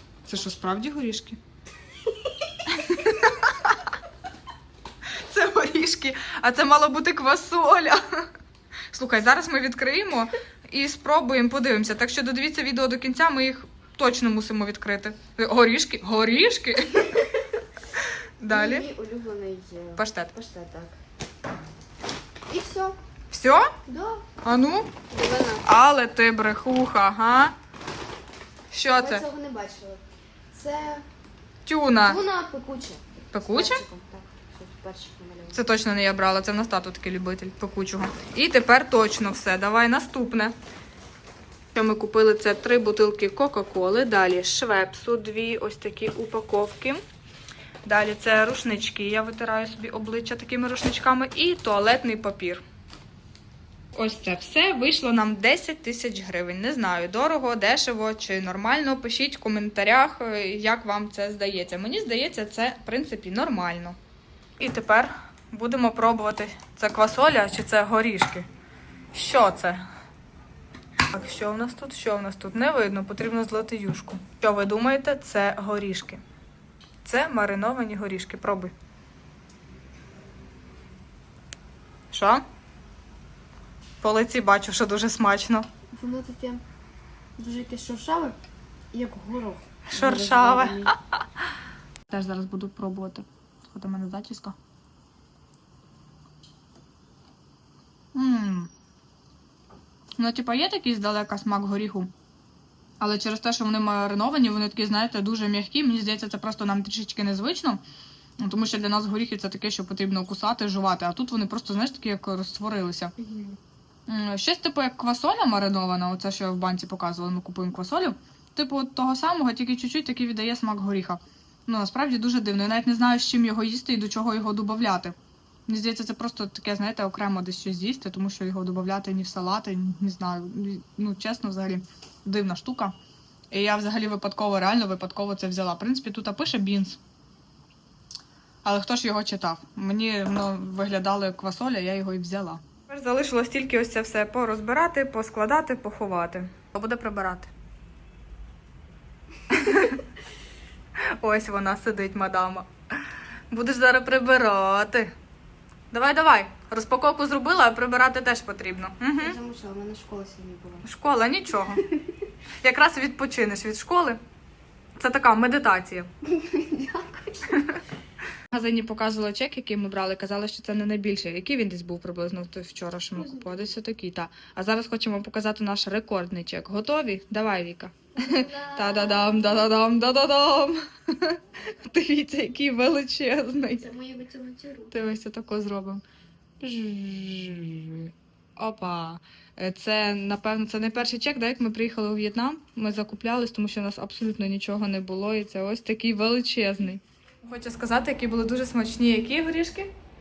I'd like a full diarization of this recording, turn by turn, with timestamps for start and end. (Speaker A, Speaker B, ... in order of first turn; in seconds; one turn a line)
Speaker A: 0.2-1.4
Speaker A: 2.7-3.9
Speaker A: 5.1-8.3
Speaker A: 8.9-17.3
Speaker A: 17.9-18.9
Speaker B: 18.5-21.0
Speaker A: 20.0-20.3
Speaker B: 22.5-23.0
Speaker A: 23.3-23.7
Speaker B: 23.9-24.2
Speaker A: 24.4-24.9
Speaker B: 25.1-25.6
Speaker A: 25.6-27.5
Speaker A: 28.7-29.2
Speaker B: 28.9-31.0
Speaker A: 31.6-32.2
Speaker B: 32.0-35.6
Speaker A: 33.3-33.8
Speaker A: 35.5-40.5
Speaker A: 41.7-47.0
Speaker A: 47.8-52.6
Speaker A: 54.0-64.0
Speaker A: 64.6-68.5
Speaker A: 69.1-69.8
Speaker A: 71.1-76.2
Speaker A: 77.0-78.7
Speaker A: 82.1-82.4
Speaker A: 84.0-85.7
Speaker B: 85.9-86.6
Speaker B: 87.4-88.4
Speaker B: 88.9-90.9
Speaker A: 89.9-90.9
Speaker A: 92.1-94.5
Speaker A: 98.1-98.7
Speaker A: 100.2-102.1
Speaker A: 103.0-107.8
Speaker A: 108.4-113.1
Speaker B: 113.2-113.5
Speaker A: 114.1-125.1
Speaker A: 125.7-132.9
Speaker A: 133.5-137.0
Speaker A: 138.6-147.5
Speaker A: 149.5-150.0
Speaker A: 151.2-152.7
Speaker A: 153.5-155.1
Speaker A: 155.9-159.4
Speaker B: 159.2-160.8
Speaker A: 160.8-161.9
Speaker A: 162.6-164.2
Speaker A: 165.0-166.1
Speaker B: 166.2-167.6
Speaker A: 167.5-167.8
Speaker A: 168.5-183.9
Speaker B: 173.2-173.5
Speaker B: 178.2-179.7
Speaker B: 183.8-185.0
Speaker A: 184.9-186.0
Speaker A: 186.6-199.9